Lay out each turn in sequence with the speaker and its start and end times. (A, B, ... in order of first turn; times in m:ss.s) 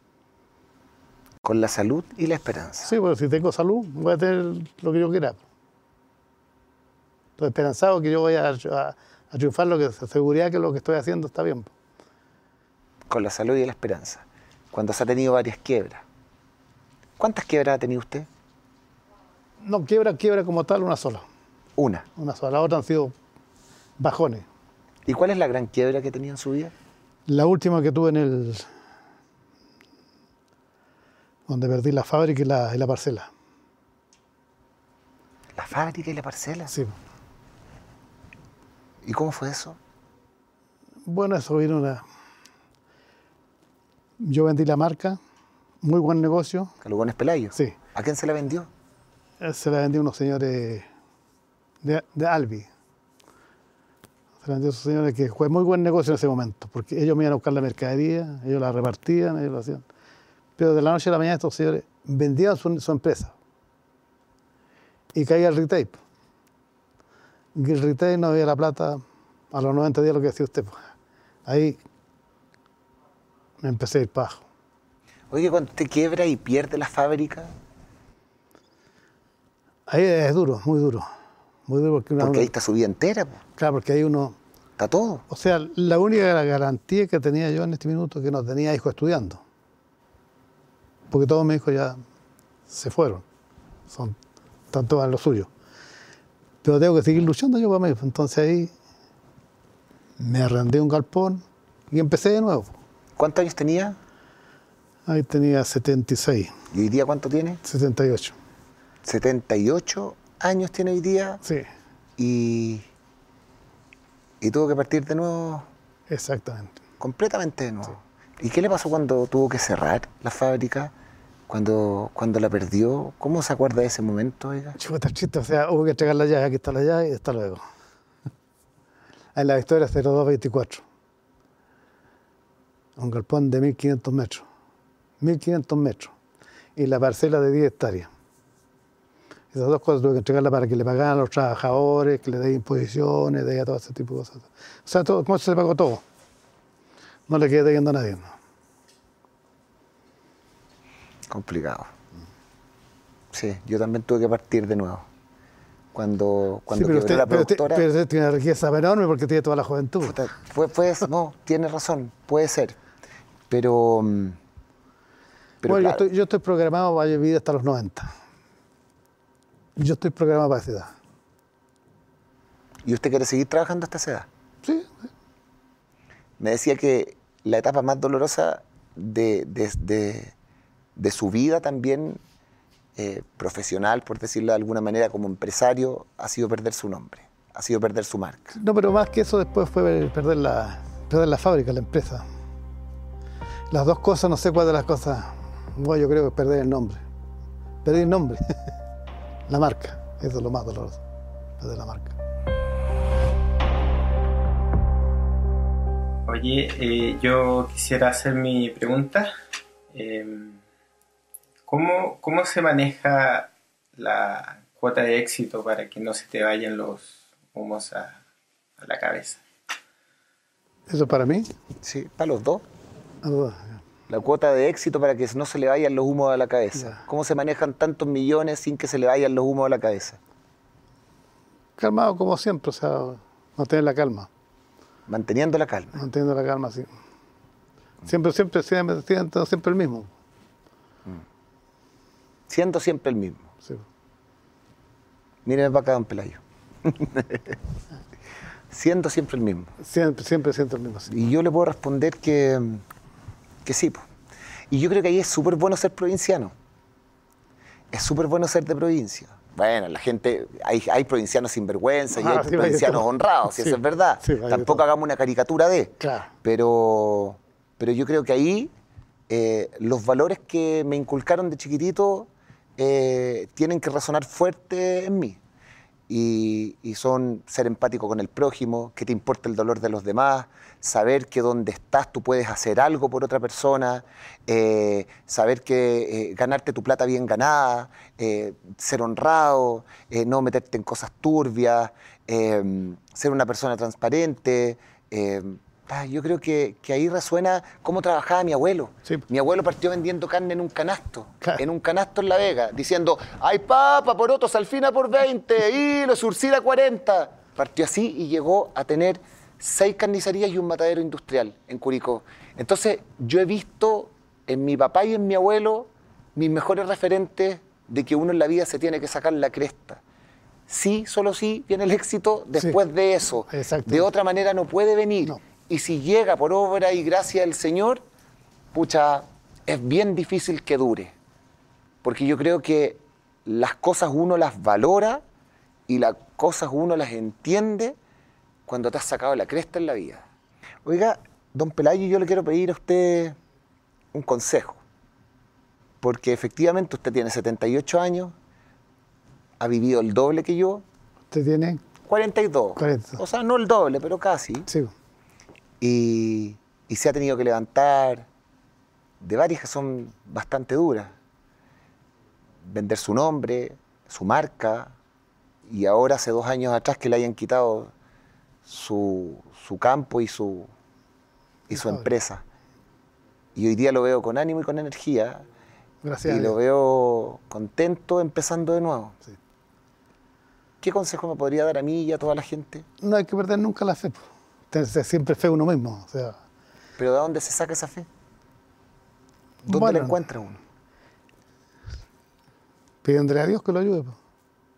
0:01.4-0:02.9 A
0:02.8-0:05.4 B
0:07.4-0:11.7 B
0:13.1-0:16.0 A
0:17.2-0:18.3 A
0:19.6-0:21.2 B
0:21.8-0:22.1 A
0:22.2-0:23.2 B
0:24.0-0:24.5 B
0:25.1-0:26.7 A
0:27.3-0:28.7 B
0:31.5-0:33.3 B
0:35.5-0:36.7 A
0:36.7-0:37.0 B
0:39.0-0:39.8 A
0:41.1-0:42.0 B
0:44.2-0:45.2 B
0:45.8-0:46.7 B
0:46.8-0:48.7 A
0:49.4-0:50.9 B
0:51.8-0:52.7 B
0:54.4-0:59.8 B
1:00.6-1:03.4 B
1:05.1-1:06.0 B
1:07.6-1:09.0 B
1:09.5-1:10.8 B
1:11.5-1:11.8 B
1:13.6-1:14.4 B
1:15.3-1:17.5 A
1:19.9-1:21.1 B
1:21.7-1:22.5 B
1:22.2-1:23.4 A
1:23.6-1:24.4 B
1:24.8-1:25.2 A
1:25.3-1:29.4 B
1:31.1-1:32.0 B
1:32.7-1:33.2 B
1:33.9-1:34.2 B
1:34.7-1:35.5 B
1:36.6-1:38.7 B
1:40.2-1:42.8 B
1:43.2-1:44.0 A
1:45.1-1:46.5 B
1:46.7-1:47.6 A
1:47.6-1:48.4 B
1:49.0-1:51.4 A
1:52.2-1:52.9 A
1:54.4-1:55.7 A
1:56.1-1:56.8 B
1:57.0-2:00.9 A
2:01.5-2:04.8 A
2:04.8-2:07.6 B
2:09.4-2:10.8 B
2:13.0-2:14.4 B
2:15.2-2:16.2 B
2:16.8-2:18.1 B
2:19.5-2:26.0 B
2:27.3-2:28.3 B
2:31.3-2:31.9 A
2:33.3-2:35.1 A
2:35.9-2:37.8 A
2:36.7-2:40.2 B
2:40.0-2:42.8 A
2:43.5-2:44.4 A
2:45.6-2:46.0 A
2:45.6-2:48.1 B
2:49.8-2:50.9 B
2:52.8-2:54.3 A
2:54.6-2:54.9 B
2:56.4-3:00.3 A
3:01.0-3:02.2 A
3:03.0-3:08.6 A
3:08.6-3:12.2 B
3:13.7-3:17.0 B
3:17.8-3:18.4 B
3:19.5-3:21.0 B
3:21.6-3:22.2 B
3:26.3-3:29.3 C
3:29.9-3:30.6 C
3:31.7-3:38.2 C
3:38.8-3:39.4 C
3:40.9-3:41.5 B
3:41.8-3:42.6 A
3:43.2-3:43.8 B
3:44.1-3:50.2 A
3:46.8-3:47.0 B
3:51.8-3:54.3 B
3:55.1-3:56.0 A
3:56.0-3:56.9 B
3:58.0-4:00.1 B
4:02.5-4:03.5 A
4:05.4-4:07.6 A
4:08.7-4:09.7 A
4:09.8-4:11.1 B
4:11.1-4:12.8 A
4:13.6-4:14.0 A
4:14.7-4:16.6 A
4:17.9-4:28.7 A
4:22.2-4:24.8 B
4:26.0-4:26.3 B
4:29.3-4:35.4 A
4:36.1-5:20.0 A
5:20.7-5:28.0 A
5:23.5-5:24.1 B
5:28.7-5:31.2 A
5:32.0-5:35.2 A
5:35.9-5:38.0 A
5:38.7-5:40.2 A
5:40.8-5:43.4 A
5:44.1-5:44.8 A
5:46.0-5:48.4 A
5:49.6-5:50.8 A
5:51.3-5:51.8 B
5:52.0-5:54.7 A
5:52.8-5:53.2 B
5:55.8-5:58.3 A
5:59.2-6:01.1 A
6:02.6-6:05.0 A
6:05.7-6:07.9 A
6:08.6-6:10.7 A
6:11.7-6:12.1 B
6:11.7-6:12.4 A
6:13.6-6:15.4 A
6:16.0-6:16.6 B
6:16.2-6:19.2 A
6:20.8-6:22.9 A
6:23.0-6:26.4 B
6:27.0-6:28.1 A
6:29.6-6:30.6 A
6:29.7-6:30.2 B
6:33.0-6:34.2 B